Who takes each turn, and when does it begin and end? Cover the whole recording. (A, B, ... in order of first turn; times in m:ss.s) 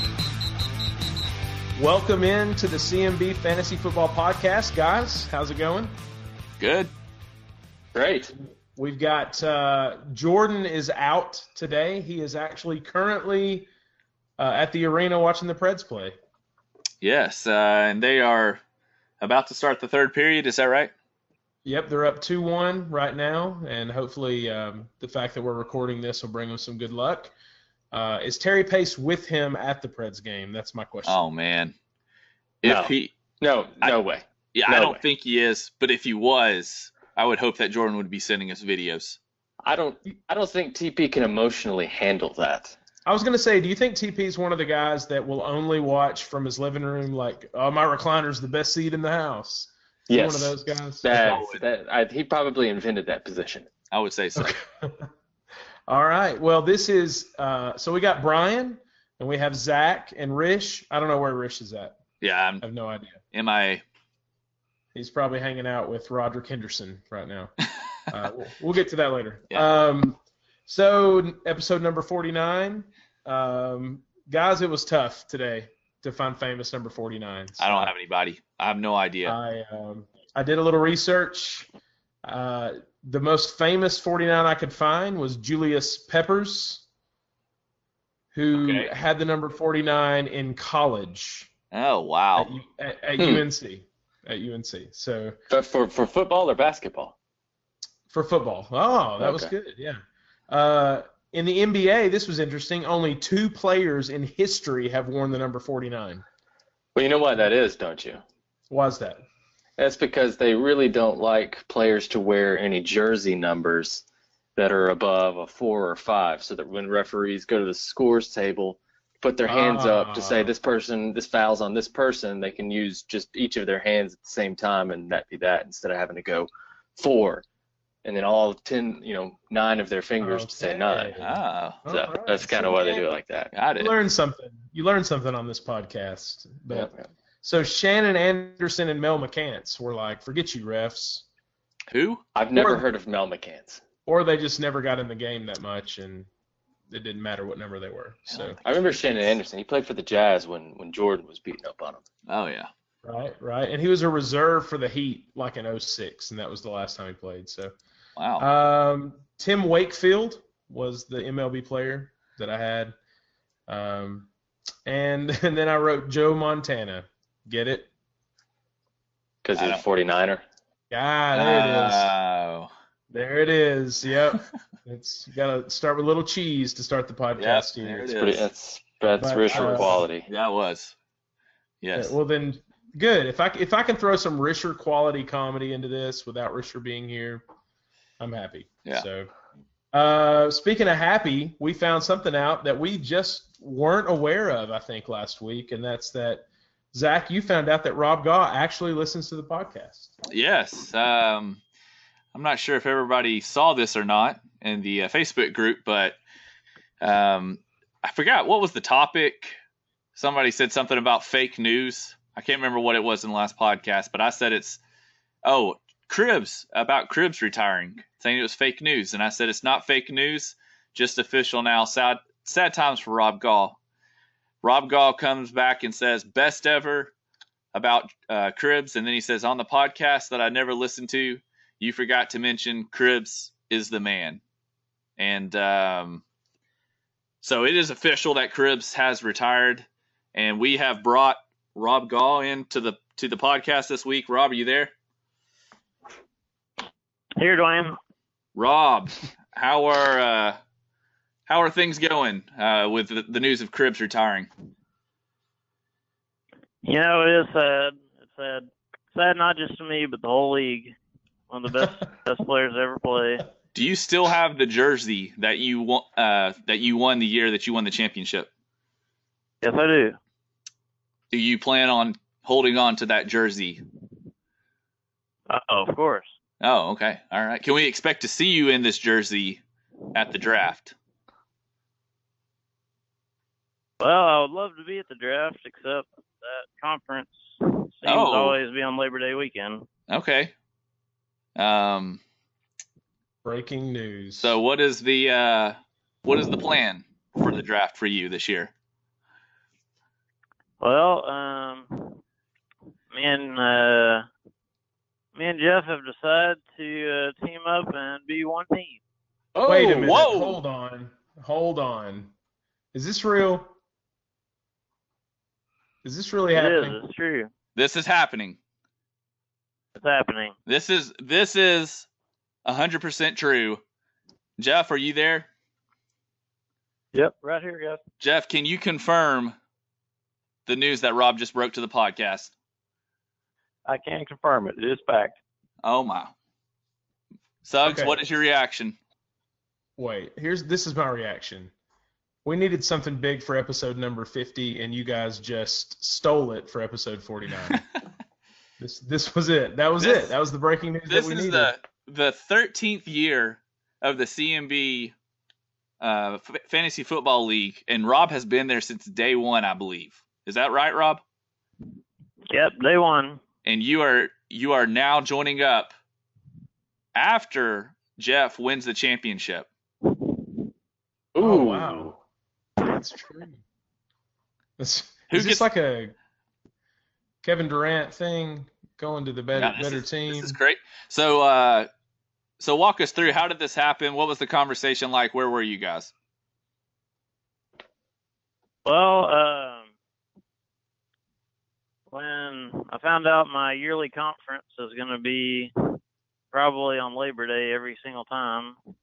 0:01.8-0:06.0 A
0:06.6-0:06.9 B
0:07.9-0:08.3 C
0:08.8-0:13.7 A
0:14.4-0:16.2 A
0:17.0-0:18.6 B
0:19.2-0:20.9 B
0:21.6-0:27.3 A
0:27.9-0:31.2 A
0:31.1-0:31.8 B
0:32.6-0:33.1 B
0:32.6-0:35.0 C
0:34.6-0:39.2 B
0:39.6-0:42.8 C
0:43.1-0:51.1 A
0:50.1-0:53.7 C
0:51.1-0:51.6 B
0:53.9-0:54.6 B
0:54.4-0:55.1 A
0:55.9-1:02.0 A
1:02.2-1:02.6 B
1:02.6-1:03.2 A
1:03.3-1:03.8 B
1:04.9-1:07.5 A
1:08.1-1:17.9 A
1:17.6-1:19.4 B
1:19.2-1:21.7 A
1:22.2-1:26.8 A
1:28.3-1:31.5 A
1:28.6-1:28.9 B
1:31.7-1:32.5 B
1:32.4-1:35.4 A
1:33.2-1:33.4 C
1:35.5-1:37.2 C
1:38.1-1:46.2 A
1:39.2-1:39.5 C
1:47.0-1:48.2 C
1:48.7-1:49.3 A
1:49.8-1:54.0 C
1:54.6-2:07.4 C
1:59.5-2:00.5 A
2:08.0-2:11.2 C
2:10.2-2:13.1 A
2:11.2-2:11.8 B
2:11.9-2:13.5 C
2:13.5-2:13.9 B
2:13.8-2:16.9 A
2:16.7-2:17.1 C
2:17.4-2:21.3 A
2:21.9-2:22.2 B
2:22.4-2:23.8 C
2:22.6-2:22.8 A
2:24.1-2:26.3 A
2:26.9-2:28.6 A
2:28.6-2:32.1 C
2:32.3-2:32.7 B
2:33.0-2:37.7 A
2:38.2-2:38.5 B
2:38.4-2:42.9 A
2:43.7-2:44.3 A
2:44.9-2:47.9 A
2:49.4-2:50.4 C
2:49.6-2:49.8 B
2:50.9-2:52.1 A
2:51.3-2:52.7 B
2:53.1-2:58.1 A
2:57.4-2:58.5 B
2:58.2-3:00.3 C
2:59.2-3:00.0 A
2:59.5-3:00.9 B
3:01.8-3:02.2 B
3:02.0-3:07.4 A
3:08.2-3:09.3 A
3:09.9-3:20.1 A
3:20.3-3:21.6 B
3:22.3-3:26.2 B
3:27.0-3:29.6 B
3:30.2-3:34.8 B
3:35.4-3:43.8 B
3:44.6-3:47.1 B
3:47.7-3:54.4 B
3:55.2-3:56.2 B
3:57.4-4:04.9 B
4:07.4-4:08.0 D
4:08.6-4:10.6 B
4:11.5-4:14.5 B
4:16.8-4:21.0 D
4:21.5-4:23.5 D
4:23.7-4:28.5 B
4:29.6-4:30.2 D
4:31.3-4:33.8 B
4:35.5-4:36.3 D
4:36.6-4:39.6 B
4:40.1-4:40.9 B
4:44.0-4:49.9 D
4:48.0-4:48.6 B
4:50.1-4:50.5 B
4:51.6-4:52.2 B
4:53.4-4:54.6 A
4:54.4-4:58.7 B
5:00.8-5:02.2 D
5:03.1-5:04.3 D
5:05.4-5:09.0 D
5:09.6-5:10.4 C
5:09.6-5:12.3 A
5:10.0-5:10.6 B
5:12.9-5:13.7 A
5:16.0-5:17.0 A
5:16.5-5:17.5 D
5:17.8-5:18.6 B
5:20.0-5:20.5 D
5:20.7-5:22.1 B
5:22.6-5:23.8 B
5:24.6-5:25.5 B
5:27.1-5:28.0 E
5:28.2-5:29.6 B
5:30.7-5:32.5 B
5:33.9-5:35.4 E
5:35.8-5:36.3 B
5:37.6-5:39.0 B
5:37.8-5:38.2 A
5:40.0-5:41.7 A
5:42.4-5:47.8 A
5:48.8-5:51.7 A
5:50.0-5:50.3 B
5:51.1-5:55.1 B
5:56.0-6:01.2 B
6:02.5-6:03.4 D
6:03.6-6:05.9 B
6:07.2-6:09.7 B
6:11.4-6:12.2 C
6:11.4-6:12.2 A
6:12.8-6:13.6 A
6:14.8-6:16.2 A
6:15.3-6:15.6 B
6:17.4-6:20.6 A
6:19.6-6:21.9 B
6:22.6-6:26.1 B
6:28.8-6:29.9 D
6:32.1-6:36.0 D
6:36.5-6:38.8 D